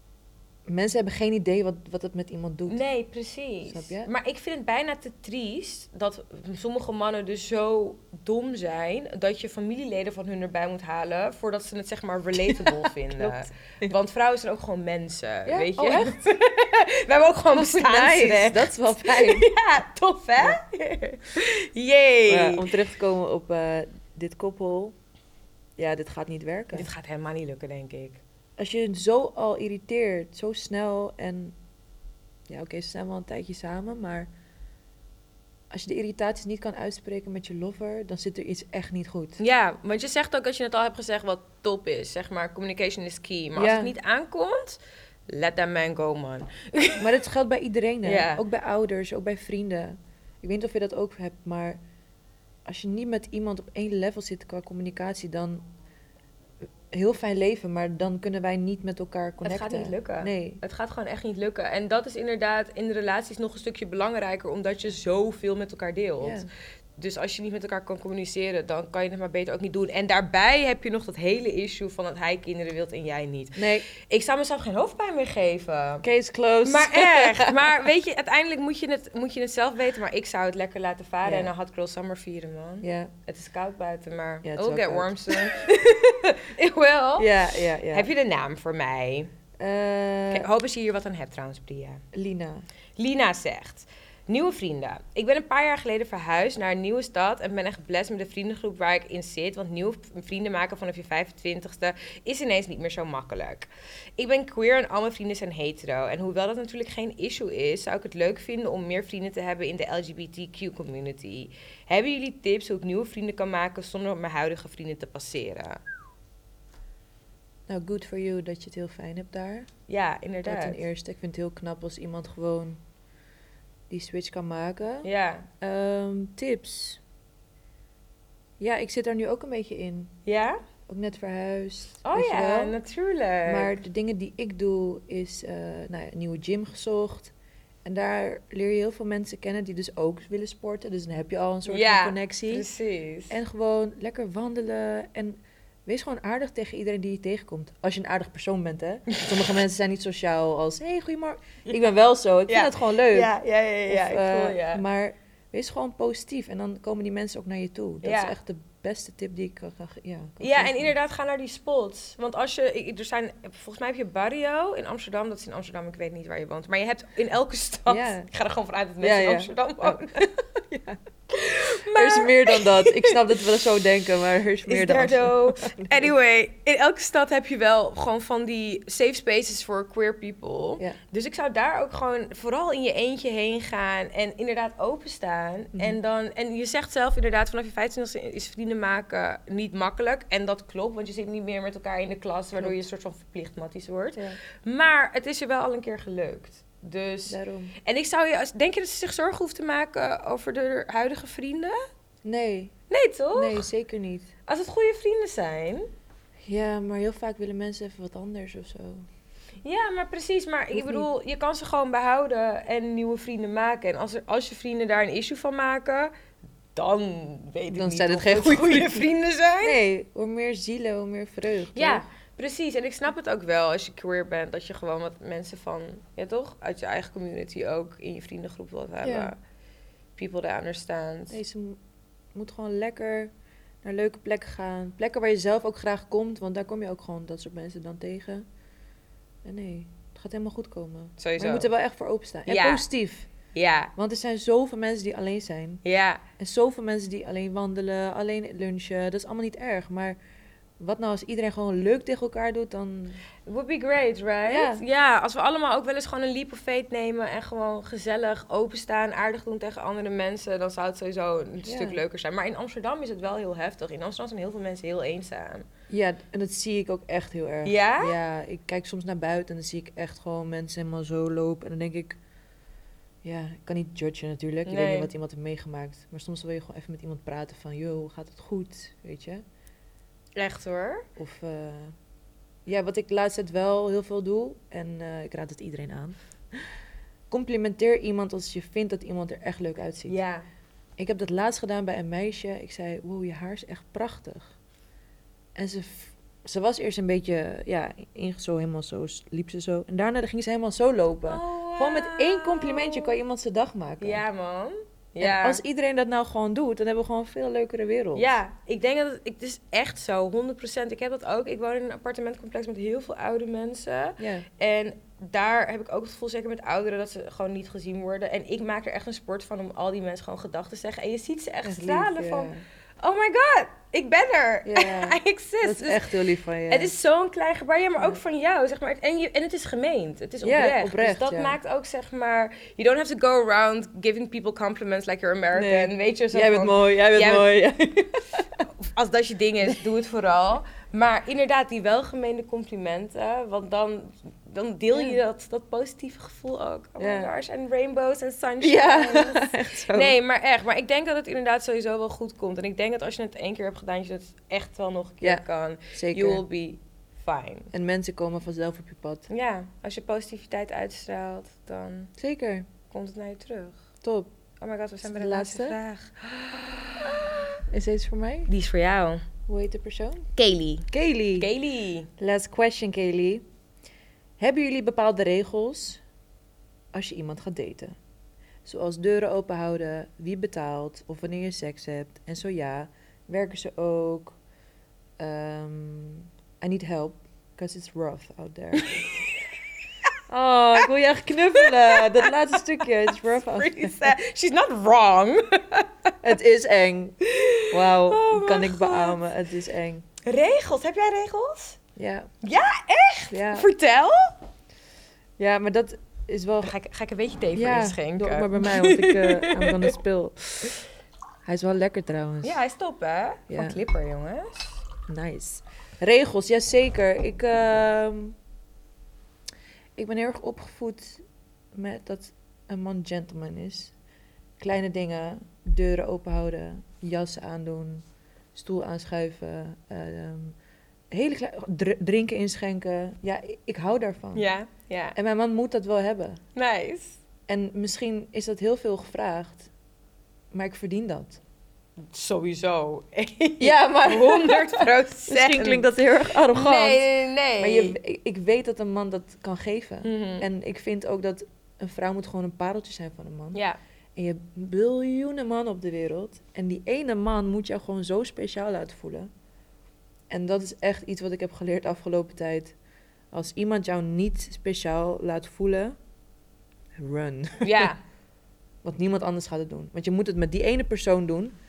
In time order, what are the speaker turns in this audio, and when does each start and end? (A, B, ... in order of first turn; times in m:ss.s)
0:00.7-0:02.8 A
0:02.7-0:22.7 B
0:03.7-0:04.1 A
0:12.5-0:13.9 A
0:15.4-0:16.2 A
0:17.5-0:19.5 A
0:22.3-0:24.9 A
0:25.8-0:26.9 A
0:26.7-0:28.2 B
0:28.6-0:31.6 A
0:32.5-0:34.3 A
0:35.7-0:39.4 A
0:39.4-0:47.1 B
0:43.5-0:43.9 A
0:47.0-0:51.8 A
0:48.0-0:48.4 B
0:52.6-0:55.6 A
0:56.9-1:00.6 A
0:59.4-1:06.4 B
1:06.2-1:06.5 A
1:07.0-1:16.0 B
1:13.6-1:13.9 A
1:16.0-1:17.7 A
1:16.6-1:29.3 B
1:21.2-1:21.5 A
1:22.8-1:23.1 A
1:24.4-1:25.7 A
1:27.2-1:28.1 A
1:29.6-1:30.5 A
1:30.3-1:32.0 B
1:32.1-1:32.6 A
1:33.0-1:55.8 B
1:57.7-1:59.7 A
1:59.9-2:00.8 B
2:00.4-2:02.8 A
2:03.9-2:05.1 A
2:05.0-2:05.5 B
2:05.6-2:07.0 A
2:08.6-2:10.1 A
2:10.2-2:10.6 B
2:10.9-2:12.8 A
2:12.0-2:13.7 B
2:13.4-2:17.3 A
2:17.8-2:22.6 A
2:21.7-2:23.4 B
2:23.3-2:33.3 A
2:32.5-2:34.8 B
2:33.9-2:40.9 A
2:38.0-2:38.3 B
2:40.4-2:50.3 B
2:47.9-2:48.3 A
2:49.0-2:51.0 A
2:51.3-2:53.5 B
2:51.8-2:56.1 A
2:54.7-3:21.8 B
3:17.3-3:17.7 A
3:22.2-3:22.7 A
3:22.9-3:23.7 B
3:23.3-3:24.3 A
3:24.5-3:25.9 B
3:26.4-3:29.1 A
3:29.6-3:36.1 B
3:30.7-3:31.1 A
3:36.7-3:39.8 B
3:37.7-3:39.1 A
3:39.6-3:42.0 A
3:41.7-3:49.4 B
3:49.0-3:49.3 A
3:50.2-3:51.4 B
3:51.3-3:51.8 A
3:52.3-3:53.3 A
3:53.8-3:58.4 A
3:59.4-4:03.3 A
4:01.2-4:01.7 B
4:02.5-4:02.8 B
4:03.5-4:03.9 B
4:04.0-4:05.8 A
4:05.8-4:06.2 B
4:06.4-4:10.2 A
4:10.8-4:13.2 A
4:13.4-4:25.6 B
4:14.5-4:14.8 A
4:21.6-4:22.0 A
4:25.9-4:32.2 A
4:27.6-4:28.2 B
4:33.2-4:39.4 A
4:34.6-4:35.1 B
4:40.4-4:41.0 B
4:41.2-4:42.0 A
4:42.6-4:46.7 A
4:47.3-4:50.2 A
4:50.1-4:50.4 B
4:51.0-4:54.6 A
4:55.6-5:04.2 A
5:01.2-5:03.2 B
5:04.0-5:05.6 B
5:05.2-5:08.4 A
5:08.1-5:26.0 B
5:14.2-5:14.4 A
5:21.6-5:22.6 A
5:24.6-5:26.9 A
5:26.7-5:37.5 B
5:30.4-5:31.6 A
5:35.5-5:38.5 A
5:38.8-5:57.7 B
5:44.9-5:45.2 A
5:47.0-5:47.3 A
5:48.6-5:50.1 A
5:55.2-5:56.4 A
5:57.7-5:59.3 A
5:59.3-6:02.1 B
6:02.2-6:02.7 A
6:02.9-6:03.8 B
6:04.0-6:04.3 A
6:04.6-6:07.6 B
6:05.0-6:05.8 A
6:07.7-6:08.5 A
6:08.5-6:09.2 B
6:09.5-6:10.2 A
6:10.4-6:12.1 B
6:10.9-6:11.5 A
6:12.2-6:13.4 A
6:14.4-6:16.0 A
6:16.9-6:17.9 A
6:18.6-6:24.4 A
6:25.2-6:29.0 A
6:28.8-6:29.4 B
6:30.3-6:34.1 A
6:31.5-6:36.1 B
6:36.2-6:37.2 A
6:37.2-6:39.2 B
6:37.7-6:40.0 A
6:40.2-6:41.8 B
6:42.0-6:42.3 A
6:42.4-6:44.4 B
6:43.3-6:43.7 A
6:45.4-6:46.7 A
6:46.6-6:50.0 B
6:47.5-6:50.8 A
6:51.4-6:52.6 A
6:52.4-6:54.8 B
6:53.5-6:53.8 A
6:55.1-6:58.4 A
7:00.0-7:01.2 A
7:01.7-7:03.9 A
7:04.6-7:10.6 A
7:11.1-7:14.4 A
7:14.3-7:15.2 B
7:15.1-7:16.4 A
7:16.5-7:17.2 B
7:17.5-7:19.7 A
7:20.5-7:21.4 A
7:22.0-7:25.9 B
7:23.6-7:27.0 A
7:26.5-7:28.0 B
7:27.6-7:33.6 A
7:30.0-7:30.4 B
7:34.2-7:39.3 A
7:40.3-7:42.7 A
7:43.3-7:46.0 A
7:47.0-7:47.9 A
7:47.6-7:48.0 B
7:48.8-7:51.5 A